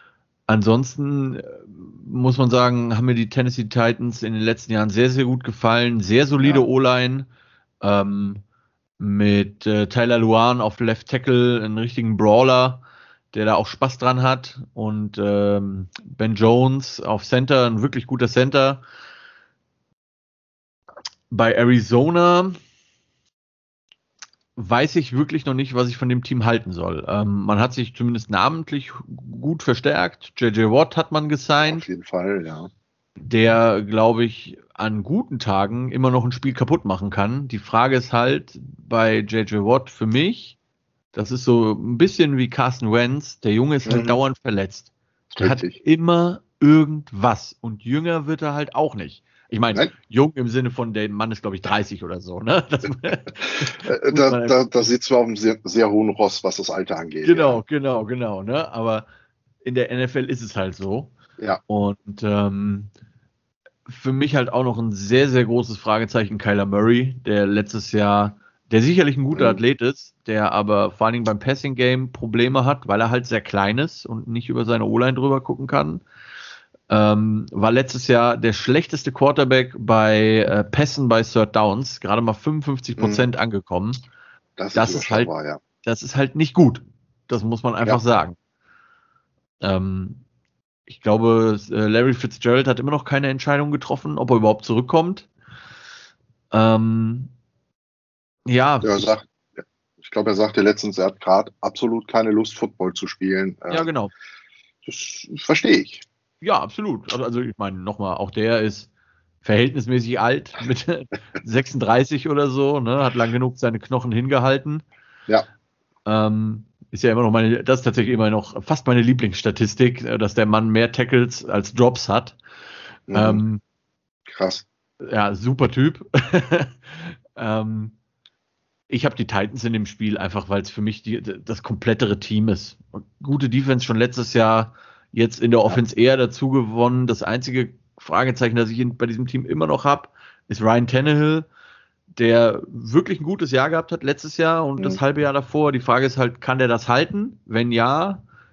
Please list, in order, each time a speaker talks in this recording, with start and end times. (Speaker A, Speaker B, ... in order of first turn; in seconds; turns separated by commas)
Speaker A: 0.5-7.3, Speaker A: 7.8-8.4, Speaker A: 9.0-18.8, Speaker A: 21.3-22.6, Speaker A: 24.6-31.9, Speaker B: 31.6-32.7, Speaker A: 33.2-40.6, Speaker A: 41.1-54.6, Speaker B: 43.9-44.2, Speaker B: 45.4-45.8, Speaker B: 53.6-57.6, Speaker A: 57.2-59.1, Speaker A: 59.6-61.1, Speaker A: 61.7-62.9, Speaker A: 63.9-76.0, Speaker B: 69.3-69.6, Speaker A: 76.9-84.0, Speaker B: 83.0-83.3, Speaker B: 84.6-85.6, Speaker A: 84.7-85.3, Speaker A: 85.8-88.3, Speaker A: 89.6-90.2, Speaker A: 90.9-95.3, Speaker A: 96.5-97.3, Speaker A: 98.5-99.0, Speaker B: 98.8-99.2, Speaker B: 100.0-103.9, Speaker A: 103.7-104.1, Speaker B: 104.8-106.0, Speaker A: 106.4-108.9, Speaker A: 109.4-114.8, Speaker A: 116.0-122.4, Speaker B: 123.1-123.4, Speaker A: 123.1-123.6, Speaker B: 124.3-124.7, Speaker A: 125.0-127.9, Speaker A: 128.9-141.5, Speaker A: 142.2-148.2